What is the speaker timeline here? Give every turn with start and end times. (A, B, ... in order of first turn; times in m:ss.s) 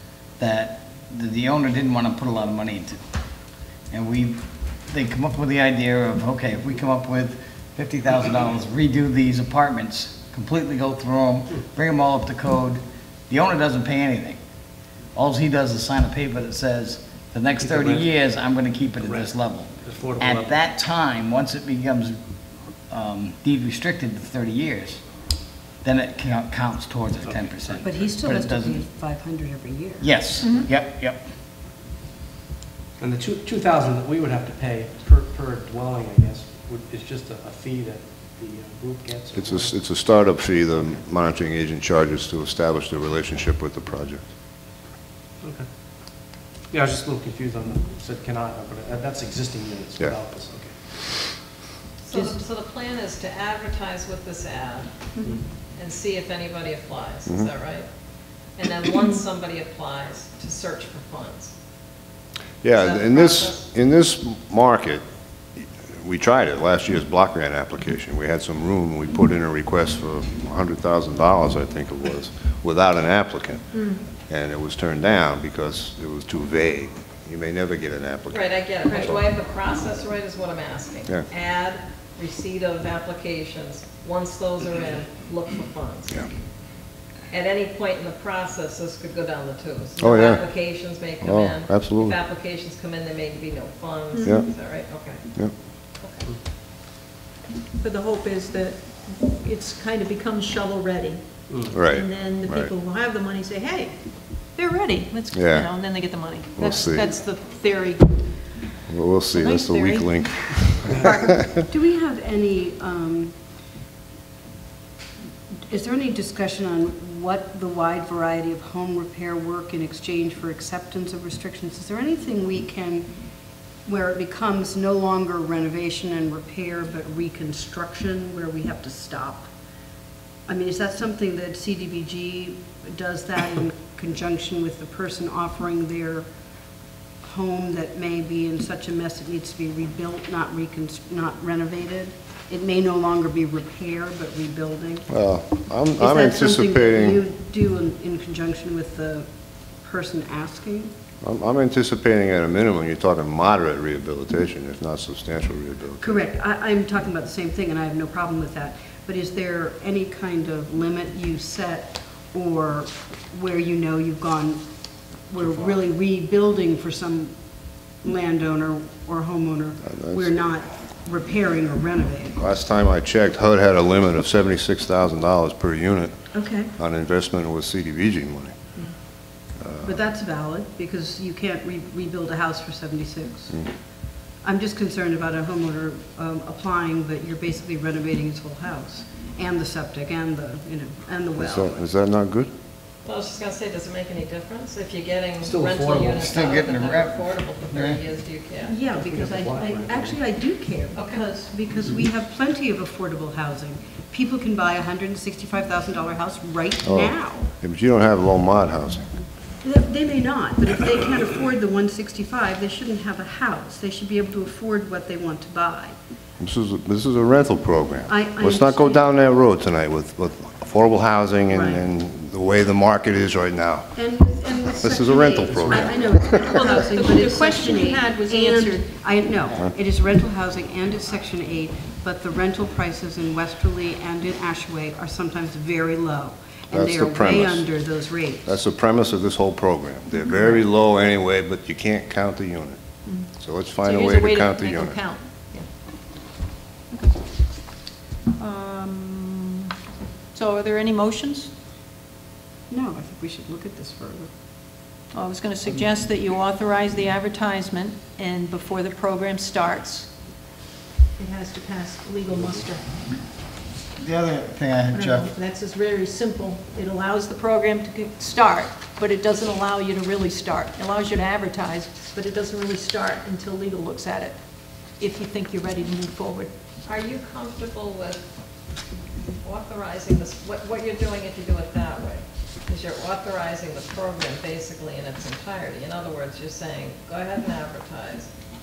0:00.4-0:03.0 A
0:03.9-0:14.4 A
0:15.1-0:22.2 A
0:17.6-0:18.1 B
0:19.0-0:20.6 B
0:22.9-0:25.0 A
0:25.8-0:28.8 A
0:27.2-0:27.9 B
0:27.8-0:30.1 C
0:30.0-0:31.2 A
0:30.4-0:30.7 D
0:33.0-0:39.8 B
0:39.4-0:44.2 E
0:46.7-0:50.8 B
0:52.0-0:54.9 F
0:52.1-0:52.4 C
0:55.7-0:57.9 F
0:58.6-1:01.5 F
1:02.6-1:05.0 E
1:02.7-1:03.6 F
1:06.0-1:19.2 E
1:13.7-1:14.0 D
1:18.3-1:26.3 F
1:27.3-1:35.2 F
1:30.0-1:30.5 E
1:31.2-1:32.2 E
1:34.1-1:34.4 D
1:34.2-1:34.5 E
1:36.0-1:36.3 F
1:37.8-1:48.2 D
1:41.5-1:41.8 B
1:41.7-1:42.7 E
1:45.3-1:47.0 E
1:48.9-1:51.3 E
1:49.3-1:51.4 D
1:51.5-1:53.3 C
1:55.7-2:03.1 C
2:03.8-2:09.5 C
2:10.5-2:16.2 C
2:17.2-2:25.0 C
2:25.1-2:27.2 E
2:26.0-2:29.3 C
2:29.8-2:30.9 C
2:31.2-2:36.2 E
2:36.0-2:44.6 C
2:45.3-2:47.3 C
2:48.0-2:52.4 C
2:49.8-2:50.3 E
2:52.4-2:56.2 E
2:56.3-2:56.7 C
2:56.8-2:58.7 E
2:59.6-2:59.9 E
2:59.8-3:03.6 C
3:04.4-3:11.9 C
3:11.4-3:12.5 E
3:13.0-3:18.8 F
3:15.4-3:16.3 B
3:16.1-3:18.0 A
3:18.6-3:27.5 C
3:18.9-3:20.2 B
3:20.9-3:21.2 F
3:26.8-3:29.1 E
3:29.6-3:36.0 C
3:36.4-3:43.9 E
3:38.1-3:39.1 C
3:41.5-3:41.8 C
3:44.0-3:58.6 C
3:44.8-3:46.5 E
3:45.5-3:45.9 B
3:46.4-3:48.9 D
3:56.7-3:57.7 E
3:58.4-4:05.0 E
4:00.3-4:00.6 D
4:03.8-4:05.6 D
4:06.9-4:07.2 D
4:08.4-4:09.7 D
4:10.3-4:11.5 D
4:12.7-4:14.3 C
4:15.1-4:20.1 D
4:21.2-4:22.8 D
4:22.4-4:22.6 B
4:24.0-4:25.3 A
4:24.9-4:34.4 D
4:35.0-4:36.5 D
4:36.8-4:38.2 F
4:39.4-4:48.3 F